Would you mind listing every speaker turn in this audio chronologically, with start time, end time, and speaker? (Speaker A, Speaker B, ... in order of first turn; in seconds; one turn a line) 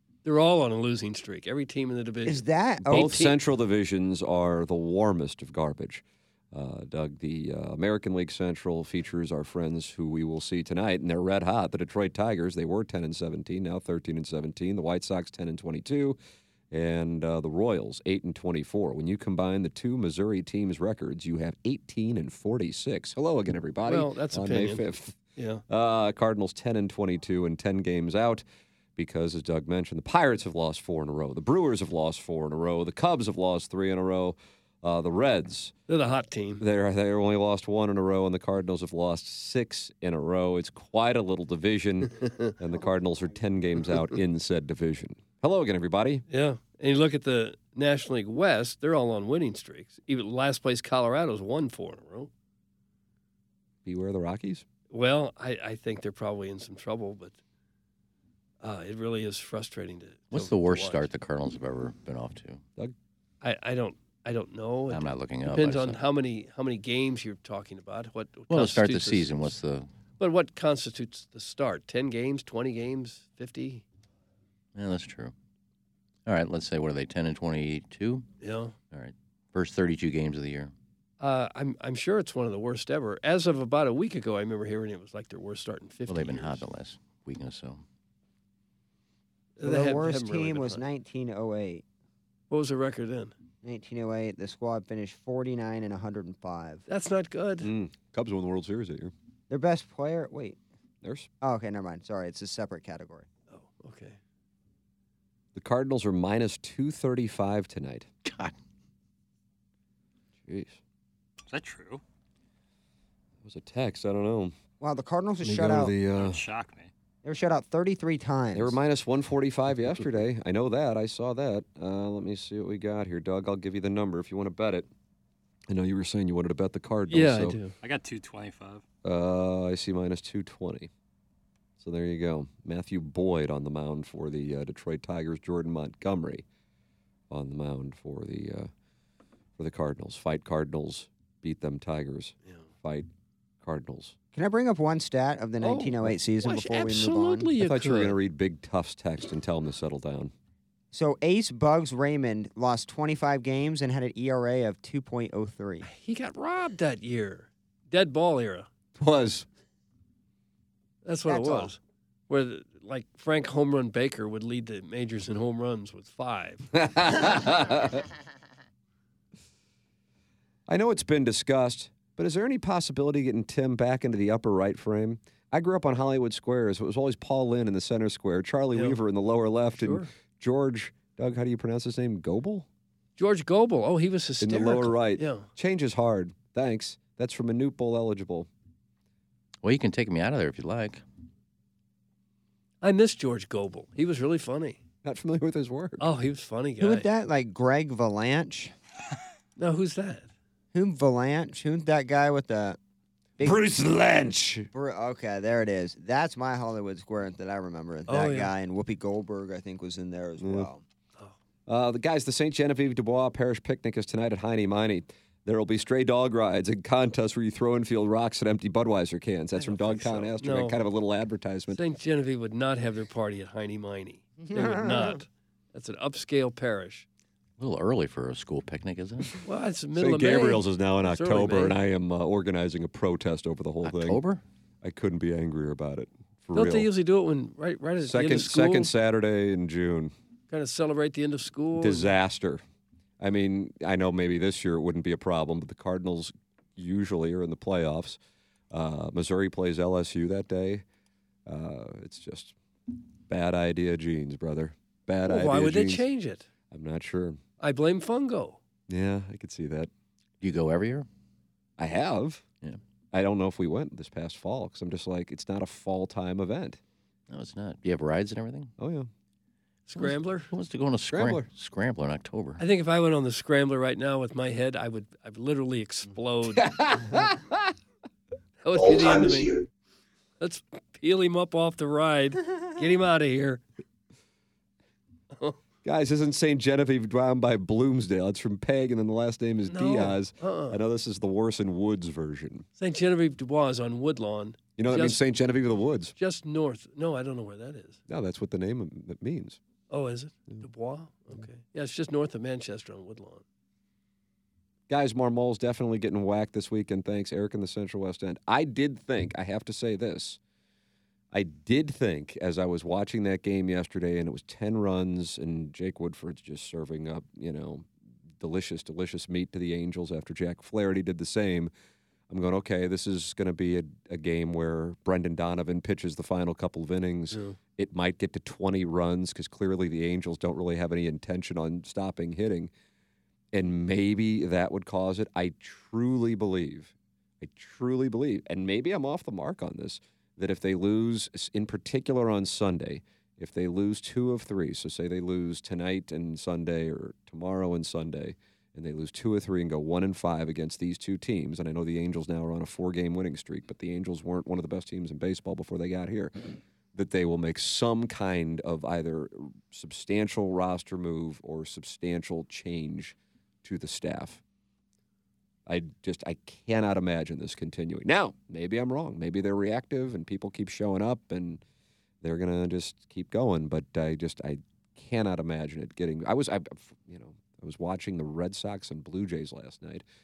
Speaker A: 0.2-3.4
Speaker B: 2.2-3.2
Speaker C: 2.8-16.2
Speaker C: 16.7-28.4
Speaker A: 23.9-24.8
Speaker A: 25.4-25.6
Speaker C: 28.9-35.7
Speaker A: 35.9-36.6
Speaker C: 36.6-46.2
Speaker A: 42.2-42.5
Speaker A: 46.3-52.3
Speaker C: 53.8-54.6
Speaker A: 54.9-57.3
Speaker A: 58.6-61.1
Speaker D: 60.3-62.6
Speaker A: 63.4-69.5
Speaker D: 64.9-66.0
Speaker D: 68.5-69.9
Speaker A: 70.2-73.8
Speaker D: 74.8-75.3
Speaker D: 76.2-78.2
Speaker A: 78.4-78.7
Speaker D: 78.9-80.7
Speaker A: 81.2-86.6
Speaker D: 86.1-87.8
Speaker A: 89.6-90.8
Speaker B: 89.6-91.8
Speaker A: 92.5-93.3
Speaker B: 93.6-96.8
Speaker A: 96.9-97.7
Speaker C: 97.6-99.1
Speaker B: 99.5-100.6
Speaker C: 101.0-101.3
Speaker B: 101.4-103.2
Speaker A: 103.5-104.2
Speaker C: 105.5-108.1
Speaker D: 108.2-108.5
Speaker C: 110.5-110.8
Speaker E: 111.5-112.0
Speaker C: 113.4-114.5
Speaker B: 114.8-115.9
Speaker C: 115.4-116.4
Speaker E: 116.1-116.9
Speaker B: 117.2-118.8
Speaker C: 118.5-124.9
Speaker C: 125.7-127.6
Speaker A: 127.1-127.7
Speaker E: 127.8-128.8
Speaker C: 129.0-130.9
Speaker C: 131.8-136.4
Speaker C: 137.3-138.7
Speaker C: 139.6-143.1
Speaker C: 143.6-144.2
Speaker B: 144.3-147.5
Speaker A: 145.6-148.2
Speaker C: 147.6-150.3
Speaker B: 150.9-155.9
Speaker A: 155.8-158.7
Speaker C: 158.9-159.4
Speaker A: 161.0-166.7
Speaker B: 161.3-161.7
Speaker C: 166.7-168.0
Speaker C: 170.7-182.7
Speaker A: 178.7-179.0
Speaker A: 179.7-180.1
Speaker A: 183.2-185.5
Speaker C: 184.4-188.5
Speaker D: 189.6-191.0
Speaker A: 192.8-194.8
Speaker C: 195.0-196.0
Speaker A: 196.0-197.1
Speaker B: 196.8-198.7
Speaker A: 199.6-200.3
Speaker B: 200.7-202.8
Speaker B: 203.4-203.6
Speaker C: 203.4-204.7
Speaker B: 204.7-210.8
Speaker A: 208.1-208.5
Speaker C: 210.4-210.7
Speaker C: 211.7-221.8
Speaker A: 219.6-220.8
Speaker A: 221.7-227.1
Speaker B: 224.4-225.2
Speaker D: 227.6-229.3
Speaker A: 229.4-231.8
Speaker C: 229.9-234.2
Speaker D: 233.8-234.4
Speaker C: 234.8-236.9
Speaker A: 236.5-238.9
Speaker C: 238.0-240.1
Speaker A: 240.5-242.1
Speaker C: 241.8-242.6
Speaker C: 243.2-248.2
Speaker C: 248.7-250.8
Speaker C: 251.4-252.5
Speaker C: 253.3-256.1
Speaker A: 255.2-256.4
Speaker C: 256.7-257.4
Speaker A: 257.6-258.6
Speaker C: 258.9-259.9
Speaker D: 260.4-261.1
Speaker C: 261.8-262.4
Speaker C: 263.1-266.8
Speaker D: 267.3-268.7
Speaker C: 268.8-269.1
Speaker A: 269.9-270.5
Speaker D: 270.0-272.6
Speaker C: 271.1-271.5
Speaker A: 272.6-276.7
Speaker C: 276.6-277.7
Speaker A: 278.6-279.6
Speaker A: 280.4-283.6
Speaker C: 285.8-292.6
Speaker A: 289.7-290.8
Speaker A: 292.8-295.2
Speaker C: 294.8-296.1
Speaker A: 296.2-298.0
Speaker C: 298.1-299.6
Speaker A: 299.9-303.4
Speaker C: 304.9-310.4
Speaker C: 311.3-317.9
Speaker C: 318.4-321.7
Speaker C: 322.3-332.7
Speaker A: 327.3-327.6
Speaker C: 333.5-364.4
Speaker C: 365.7-371.6
Speaker C: 372.2-380.0